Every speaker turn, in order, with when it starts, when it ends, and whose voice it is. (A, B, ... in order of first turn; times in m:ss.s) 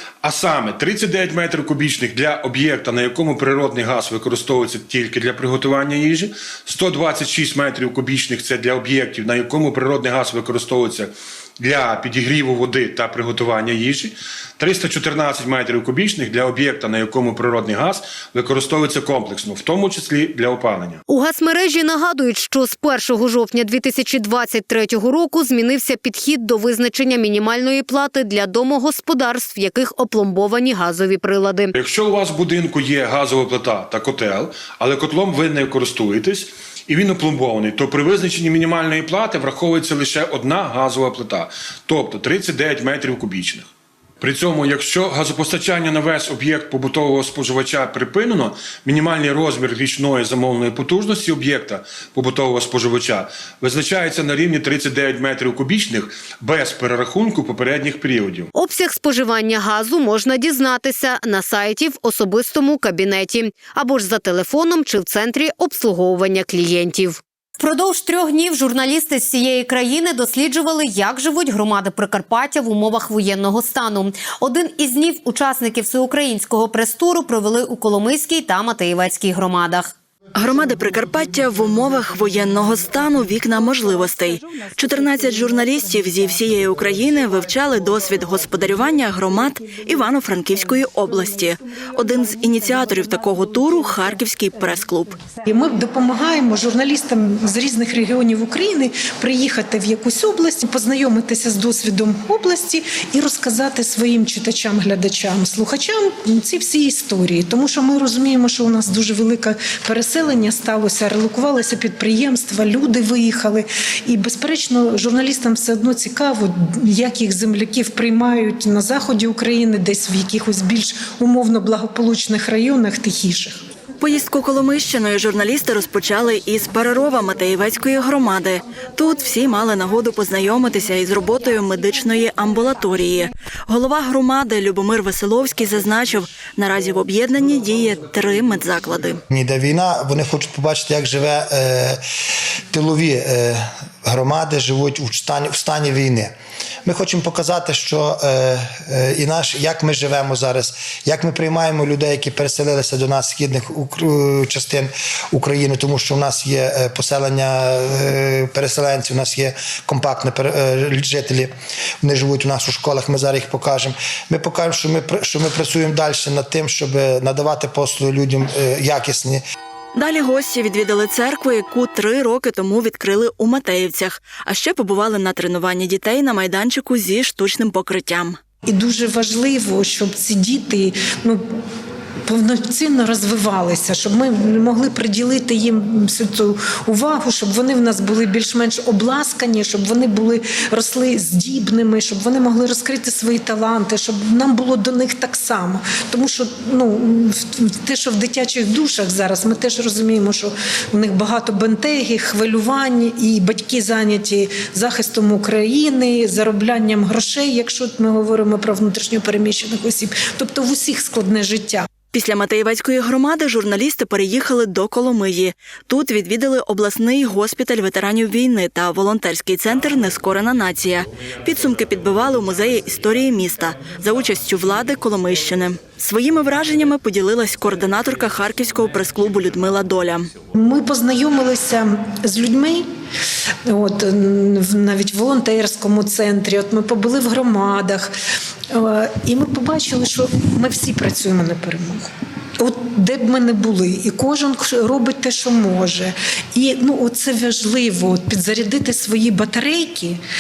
0:00.2-0:21.0 A
0:21.1-0:31.7 B
0:31.8-0:58.5 A
0:58.6-1:19.9 B
1:20.4-1:35.2 C
1:35.5-2:03.6 D
2:04.0-2:19.2 C
2:19.3-2:22.0 E
2:22.7-2:26.3 E
2:26.8-2:49.4 E
2:50.0-2:58.4 C
2:58.7-3:01.4 D
3:02.3-3:31.9 D
3:32.1-3:50.3 C
3:50.6-3:52.9 D
3:53.7-3:58.1 D
3:58.7-4:10.2 D